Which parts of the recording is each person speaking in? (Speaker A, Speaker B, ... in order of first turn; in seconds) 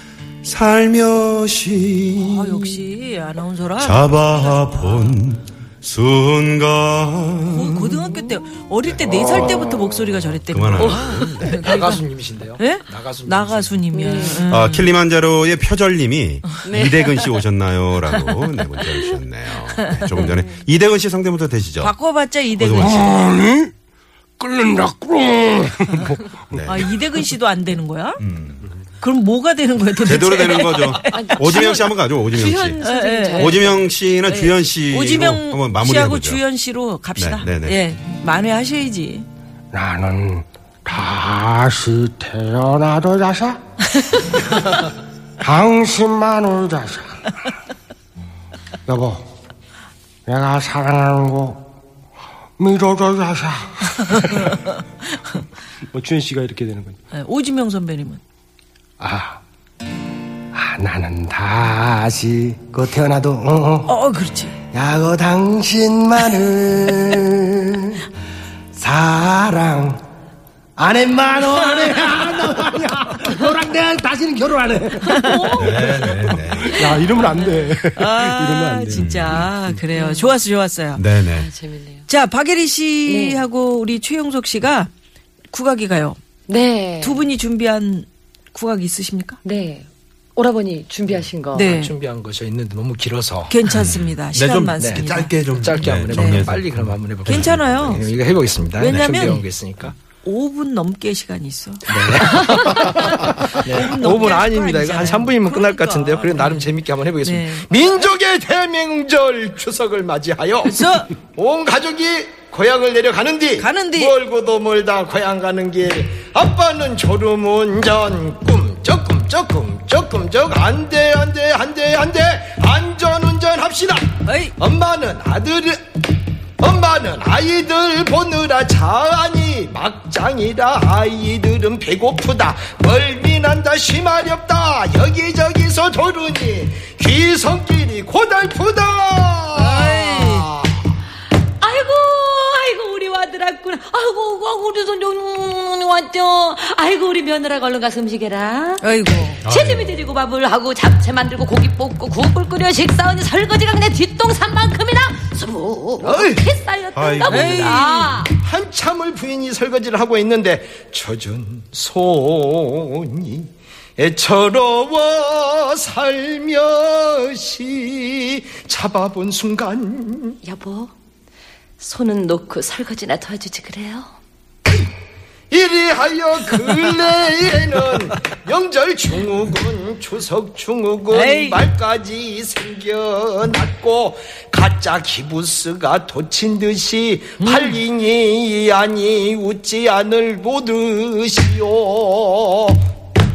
Speaker A: 0.4-2.8, 3.8-8.0, 10.5-11.7, 14.5-21.9, 22.5-23.0, 26.5-26.9, 28.2-28.7, 30.0-32.8, 33.3-36.4, 37.2-37.8, 75.6-76.9, 78.9-79.5, 81.0-81.5, 93.7-98.0, 149.4-150.0, 156.9-157.8
Speaker B: 2.1-5.2, 7.5-12.0, 12.6-14.9, 19.8-20.3, 21.8-23.4, 26.7-28.2, 29.0-31.8, 32.8-33.7, 34.3-39.3, 57.1-58.2, 63.9-64.6, 71.4-72.4, 75.1-81.0, 82.1-84.9, 85.5-86.2, 87.0-89.4, 91.5-91.9, 93.5-96.5, 97.3-98.0, 98.8-99.5, 100.2-107.7, 110.6-111.1, 113.6-114.1, 124.3-124.5, 139.6-140.5, 148.8-149.4, 157.2-158.2, 181.1-181.7, 187.4-187.7
Speaker C: 9.0-9.8, 22.8-23.7, 24.4-26.3, 39.7-43.6, 45.4-47.2, 48.9-49.2, 50.3-51.6, 52.6-54.5, 55.9-57.0, 59.0-59.4, 60.5-63.9, 64.7-68.1, 68.7-70.0, 70.8-75.6, 76.7-79.1
Speaker D: 11.5-14.1, 91.1-93.9, 94.8-100.0, 101.9-103.0, 103.6-125.8, 126.6-140.8, 156.0-156.5, 158.3-170.4, 175.5-192.8
Speaker E: 13.9-14.4, 16.6-17.4, 31.1-33.9, 75.2-76.0, 79.9-80.3, 81.3-82.1, 83.1-83.5, 86.5-87.3, 89.4-91.7, 141.6-158.3, 170.4-170.9, 171.8-174.1